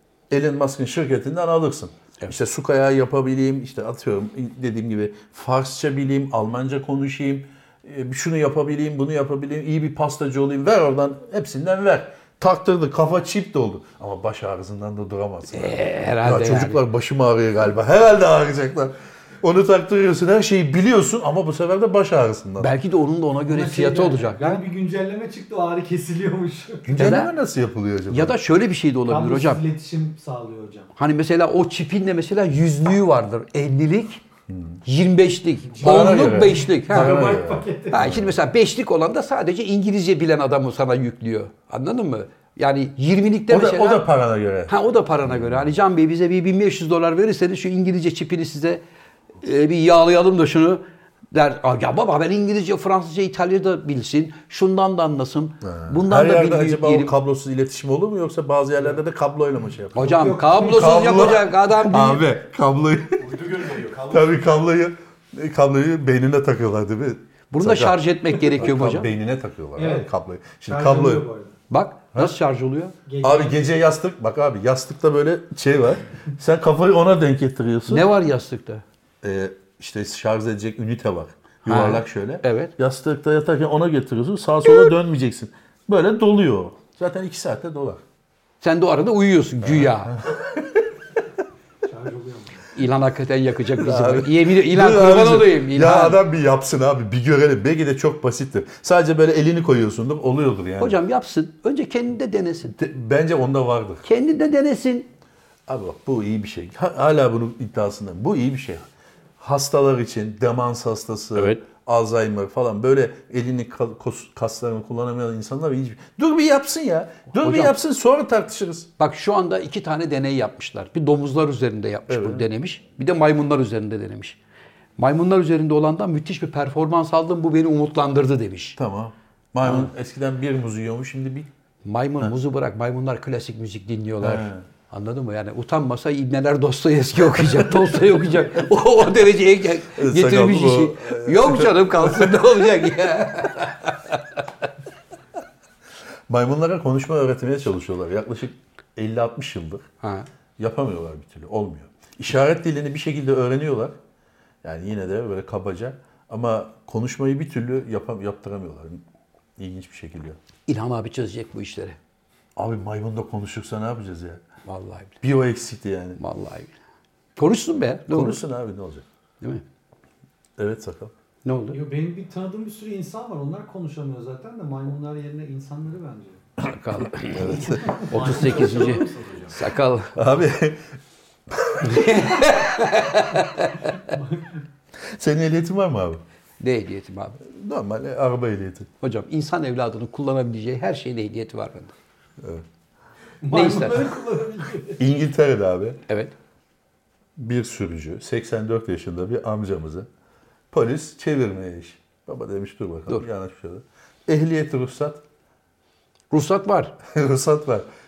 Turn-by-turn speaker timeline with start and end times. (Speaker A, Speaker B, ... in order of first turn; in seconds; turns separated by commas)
Speaker A: 0.3-22.7, Speaker B: 15.5-16.8, Speaker B: 22.6-24.6, Speaker C: 23.5-27.1, Speaker A: 26.9-28.4, Speaker B: 26.9-27.3, Speaker B: 28.1-29.6, Speaker C: 29.1-30.9, Speaker B: 30.9-34.2, Speaker A: 34.5-34.8, Speaker B: 34.9-37.3, Speaker C: 35.7-38.2, Speaker A: 35.8-38.4, Speaker B: 37.9-44.1, Speaker A: 43.5-44.7, Speaker B: 44.7-48.8, Speaker A: 45.3-45.6, Speaker B: 49.4-57.1, Speaker A: 55.6-63.5, Speaker C: 60.0-61.1, Speaker B: 60.0-62.2, Speaker D: 63.2-64.4, Speaker A: 64.1-71.3, Speaker B: 67.5-69.1, Speaker C: 69.8-70.1, Speaker C: 70.7-71.5, Speaker B: 71.7-73.0, Speaker C: 73.1-73.6, Speaker A: 73.2-78.1, Speaker B: 77.9-78.8, Speaker A: 79.2-88.0, Speaker B: 81.6-82.7, Speaker B: 88.6-90.2, Speaker A: 89.6-90.9, Speaker C: 91.8-92.7, Speaker B: 92.8-96.2, Speaker A: 93.8-101.0, Speaker B: 100.8-102.8, Speaker A: 102.8-104.0, Speaker B: 104.0-105.1, Speaker A: 105.7-108.9, Speaker A: 109.4-118.9, Speaker B: 111.3-111.6, Speaker B: 117.4-117.8, Speaker B: 119.0-124.4, Speaker A: 122.1-122.5, Speaker B: 125.0-128.8, Speaker A: 128.8-131.5, Speaker B: 129.6-129.9, Speaker B: 131.8-144.4, Speaker A: 134.2-134.6, Speaker A: 139.9-142.5, Speaker A: 146.3-149.9, Speaker B: 150.0-150.3, Speaker A: 150.6-153.9, Speaker A: 154.6-159.0, Speaker A: 159.6-160.4, Speaker B: 160.7-162.0, Speaker A: 162.6-164.4, Speaker B: 164.7-165.2, Speaker A: 165.2-166.2, Speaker B: 166.2-166.7, Speaker B: 167.4-168.4, Speaker A: 168.1-169.0, Speaker A: 170.6-171.1, Speaker B: 171.4-171.8, Speaker C: 171.7-176.4, Speaker B: 176.6-180.2, Speaker A: 177.2-178.1, Speaker C: 177.9-179.0, Speaker D: 178.1-179.6, Speaker A: 180.1-180.8, Speaker A: 181.5-182.5, Speaker B: 181.8-184.1, Speaker C: 184.1-184.5, Speaker A: 185.0-186.2, Speaker B: 186.6-187.4, Speaker A: 187.4-188.9, Speaker B: 189.0-191.9, Speaker A: 192.4-192.6, Speaker C: 193.4-195.0, Speaker B: 193.5-194.1, Speaker A: 195.0-196.0, Speaker A: 197.4-200.1, Speaker A: 200.7-205.2, Speaker B: 206.3-206.9, Speaker A: 207.1-207.9